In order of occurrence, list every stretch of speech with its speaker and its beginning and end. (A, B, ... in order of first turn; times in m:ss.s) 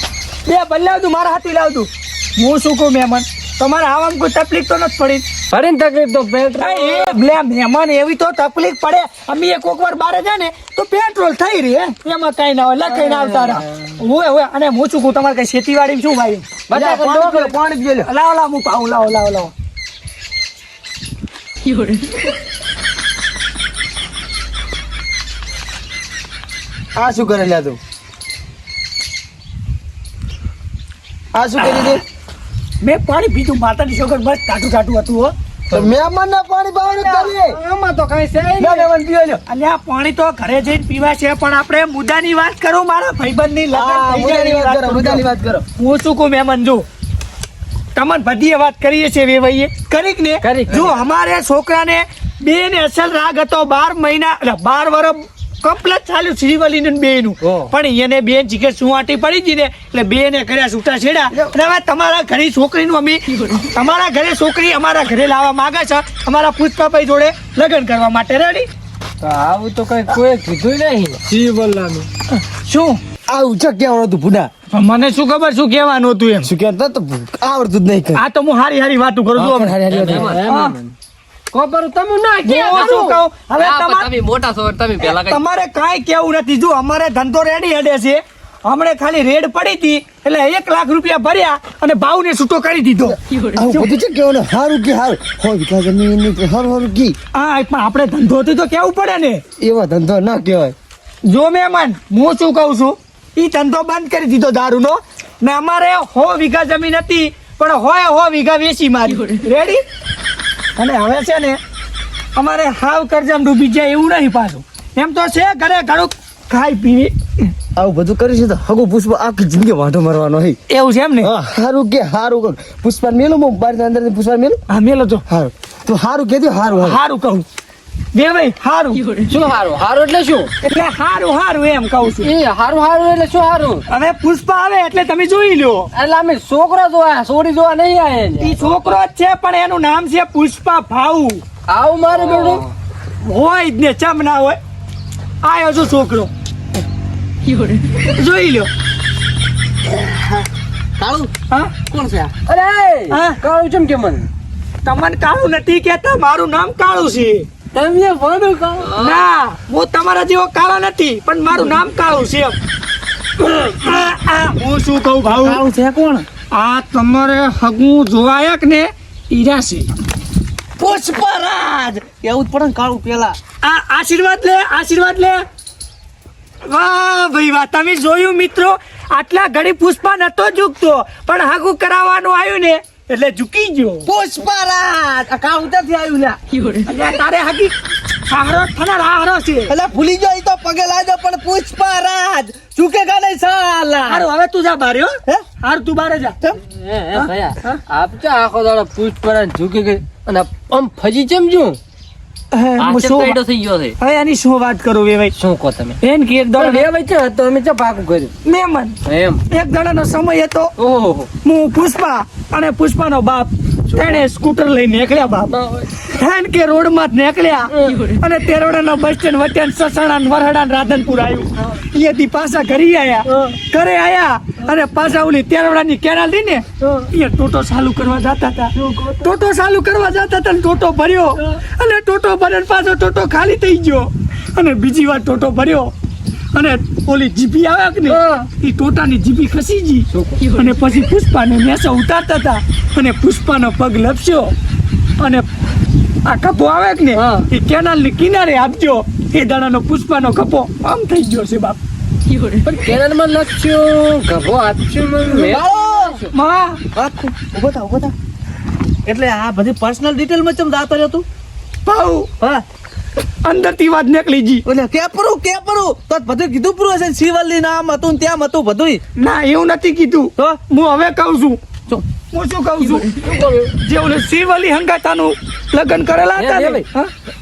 0:00.5-0:05.2 A
0:05.5-0:07.2 B
0:06.6-0:17.6 A
0:12.9-0:13.6 B
0:16.7-0:18.1 C
0:18.1-0:19.5 A
0:27.0-0:27.8 C
0:31.3-0:32.0 C
0:32.8-0:35.3 A
0:35.7-0:37.6 C
0:37.1-0:38.8 B
0:38.6-0:39.4 C
0:39.5-0:45.2 A
0:43.7-0:45.6 C
0:45.8-0:46.9 A
0:48.0-1:08.7 A
0:50.4-0:51.0 B
0:57.4-0:57.7 B
1:09.2-1:12.1 B
1:12.5-1:13.0 A
1:13.3-1:14.5 C
1:14.7-1:16.5 A
1:16.4-1:18.2 C
1:18.2-1:20.8 A
1:19.4-1:20.9 B
1:21.5-1:25.4 B
1:22.4-1:24.1 A
1:25.0-1:33.9 A
1:33.6-1:37.2 C
1:37.3-1:39.4 A
1:39.6-1:40.8 C
1:41.2-1:49.8 A
1:50.8-1:51.6 A
1:52.4-1:57.5 A
1:57.8-2:00.6 C
2:00.7-2:01.3 A
2:01.2-2:04.6 C
2:04.7-2:05.2 A
2:05.3-2:07.0 C
2:06.8-2:07.5 A
2:08.1-2:09.2 A
2:09.3-2:10.5 B
2:10.6-2:12.3 A
2:12.2-2:13.8 B
2:13.9-2:15.9 A
2:15.9-2:18.8 B
2:18.4-2:21.4 A
2:21.7-2:22.7 B
2:22.3-2:22.6 D
2:23.2-2:24.6 A
2:25.4-2:26.3 A
2:28.0-2:28.7 A
2:29.9-2:30.5 D
2:31.0-2:31.3 D
2:31.9-2:32.3 D
2:32.5-2:34.3 B
2:33.1-2:33.4 A
2:34.8-2:37.5 A
2:37.7-2:39.1 B
2:38.9-2:42.6 A
2:43.5-2:45.6 A
2:45.3-2:46.3 D
2:46.5-2:49.9 A
2:50.8-2:53.4 D
2:53.6-2:55.4 A
2:56.7-3:04.1 A
3:04.1-3:06.4 D
3:06.9-3:07.7 A
3:08.3-3:09.7 A
3:09.7-3:14.3 D
3:14.1-3:16.4 A
3:16.6-3:21.8 B
3:22.5-3:23.4 A
3:22.8-3:23.9 D
3:22.9-3:23.4 B
3:24.0-3:25.3 A
3:25.4-3:26.0 B
3:26.0-3:26.9 A
3:26.6-3:28.3 B
3:28.4-3:29.0 A
3:29.1-3:29.4 B
3:29.5-3:30.7 A
3:30.8-3:31.3 B
3:31.4-3:55.9 A
3:35.5-3:36.0 B
3:37.7-3:38.1 B
3:46.8-3:47.1 B
3:48.8-3:49.3 B
3:56.5-4:04.5 A
3:58.1-3:58.5 B
4:00.1-4:00.4 B
4:05.2-4:05.5 A
4:06.2-4:11.8 A
4:07.2-4:07.5 B
4:12.6-4:15.6 B
4:15.4-4:16.3 D
4:16.3-4:16.8 A
4:17.0-4:18.1 D
4:19.1-4:21.2 D
4:21.8-4:22.3 A
4:23.4-4:24.6 A
4:24.6-4:29.0 D
4:29.2-4:31.6 A
4:32.3-4:33.1 A
4:33.2-4:33.8 B
4:33.8-4:37.1 A
4:36.4-4:36.9 B